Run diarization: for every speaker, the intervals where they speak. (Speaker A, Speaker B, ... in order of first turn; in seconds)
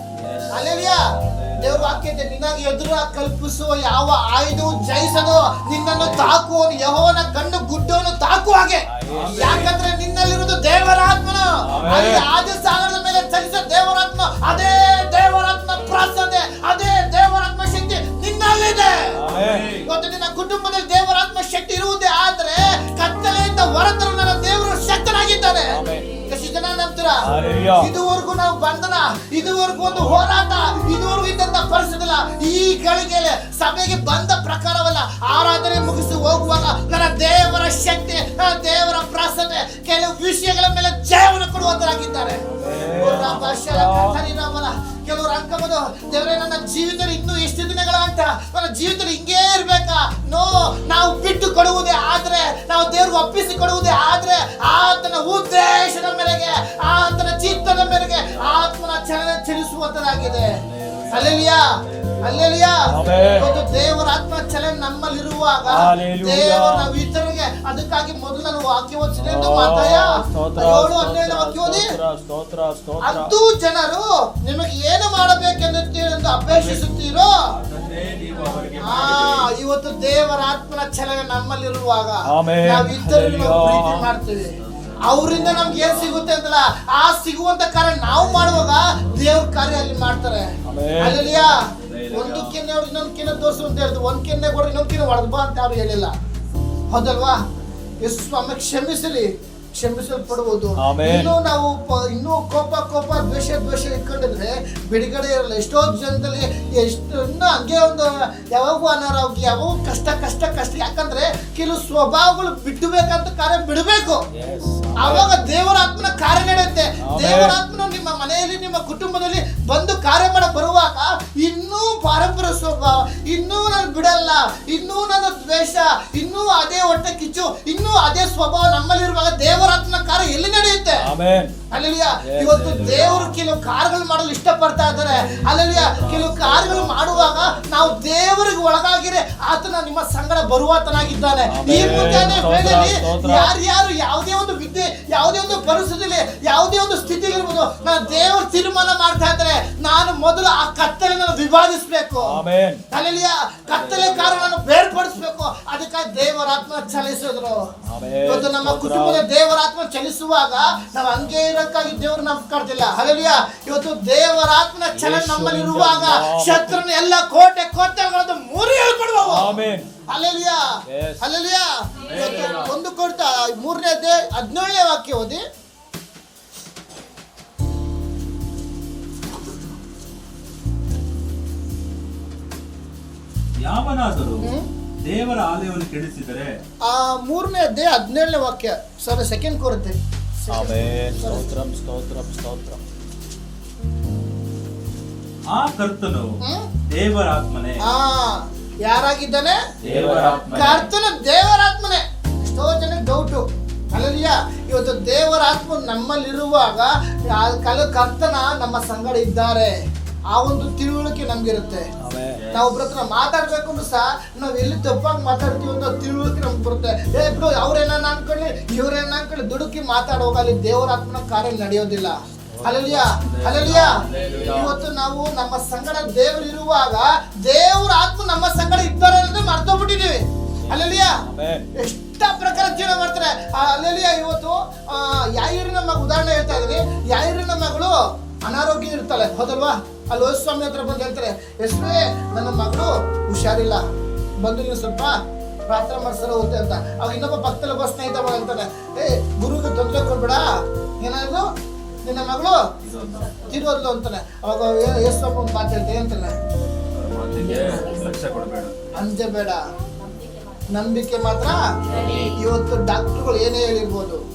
Speaker A: 0.1-0.6, 1.2-2.0, 5.9-6.3, 9.1-9.7, 19.3-19.9, 27.4-27.7, 29.9-30.2, 42.9-43.5, 57.9-58.5, 60.3-63.6, 76.5-76.8, 77.5-79.5, 84.6-86.2, 91.7-92.6, 132.4-133.3, 135.1-138.0, 145.6-148.3, 153.7-154.5, 172.0-172.7, 183.6-184.5, 185.0-186.6, 195.5-196.3, 196.9-197.8, 199.8-200.9, 212.3-212.7, 223.1-224.7, 252.8-253.4, 256.9-258.8, 261.9-262.3
Speaker B: 0.2-0.5, 8.9-9.7, 11.6-12.2, 19.1-19.7, 25.7-26.2, 27.2-27.9, 42.5-44.2, 62.9-63.4, 65.7-66.9, 69.2-73.3, 82.3-84.1, 90.6-91.4, 100.8-101.3, 114.3-115.3, 117.0-117.5, 131.0-131.6, 141.5-143.5, 152.2-152.8, 157.8-159.2, 164.9-166.8, 169.2-169.9, 170.8-171.2, 190.5-192.8, 199.8-200.7, 212.0-212.4, 222.5-223.2, 230.6-231.7
Speaker C: 0.5-19.2, 19.8-60.6, 61.1-71.9, 73.0-77.3, 78.8-96.1, 96.9-97.4, 98.0-114.2, 115.0-131.0, 131.7-152.4, 152.9-157.6, 158.3-169.5, 170.1-175.4, 184.4-184.7, 186.8-191.4, 196.4-196.7, 197.8-199.6, 200.5-209.7, 210.3-211.9, 212.5-231.2, 231.8-243.8, 244.4-245.1, 245.7-250.5, 251.0-251.5, 252.0-252.6, 253.4-256.4, 258.9-259.6, 260.7-264.2